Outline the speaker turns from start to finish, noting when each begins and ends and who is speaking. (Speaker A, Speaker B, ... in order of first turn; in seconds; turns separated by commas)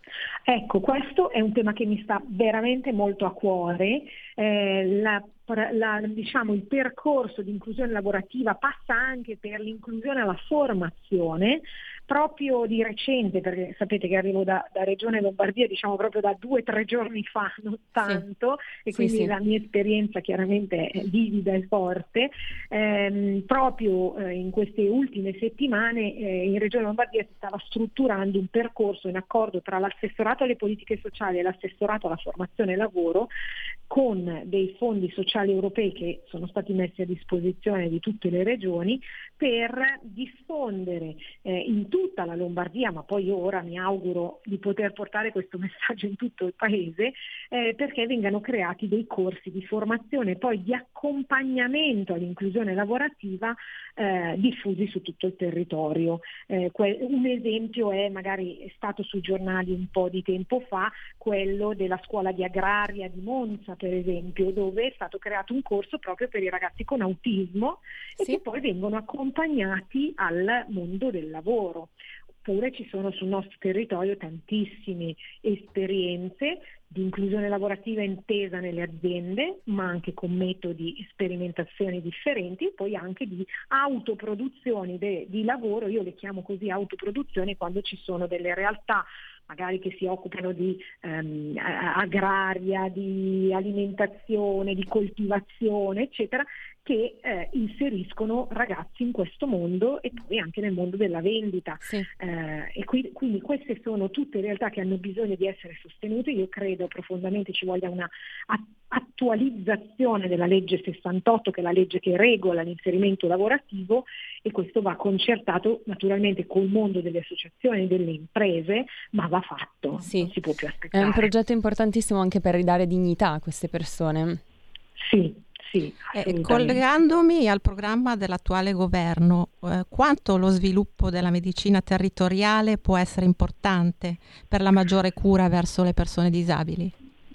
Speaker A: 0.5-33.3, Speaker B: 18.9-19.3, Speaker A: 33.9-71.9, Speaker A: 72.4-121.3, Speaker B: 120.0-120.3, Speaker B: 120.9-124.4, Speaker A: 125.0-126.8, Speaker C: 126.1-136.9